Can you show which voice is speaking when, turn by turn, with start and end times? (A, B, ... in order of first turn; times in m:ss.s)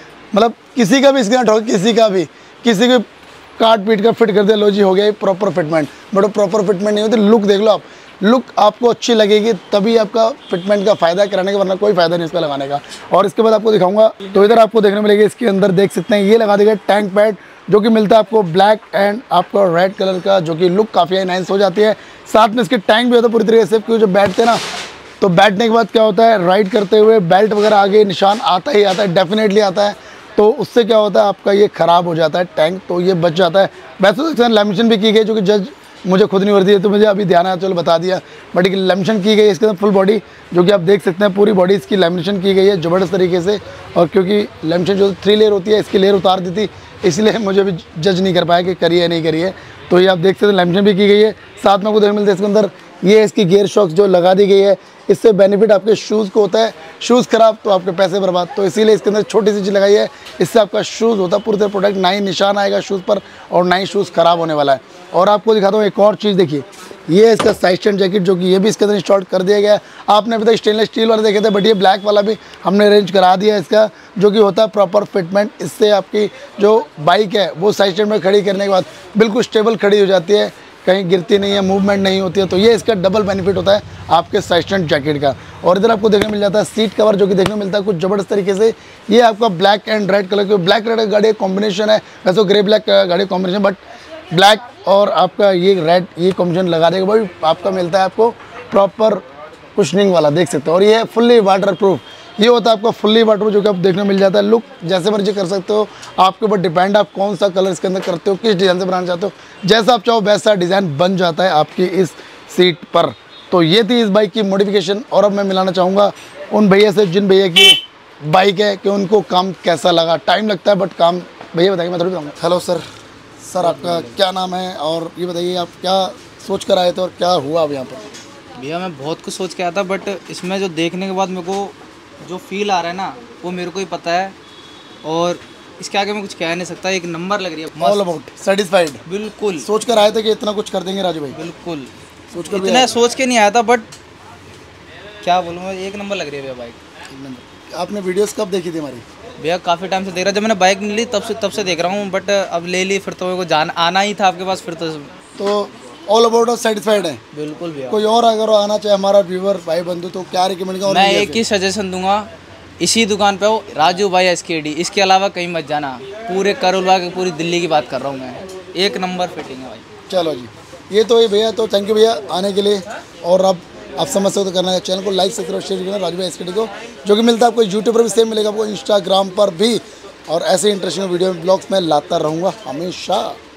0:00.3-0:03.1 A
0:03.6-0:24.6 A
0:25.2-1:33.8 A
1:34.3-1:39.2 A
1:39.8-2:02.8 A
2:03.4-2:08.1 A
2:03.6-2:04.2 B
2:08.6-2:14.3 B
2:15.0-2:18.1 B
2:17.8-2:19.0 A
2:19.1-2:19.7 B
2:19.6-2:21.4 A
2:21.3-2:21.9 B
2:22.3-2:22.9 A
2:22.5-2:23.9 B
2:25.2-2:26.8 B
2:27.1-2:29.0 A
2:29.4-2:35.1 B
2:35.4-2:37.2 A
2:37.3-2:38.0 B
2:37.9-2:41.4 A
2:40.8-2:42.3 B
2:42.8-2:49.8 B
2:50.1-3:03.4 A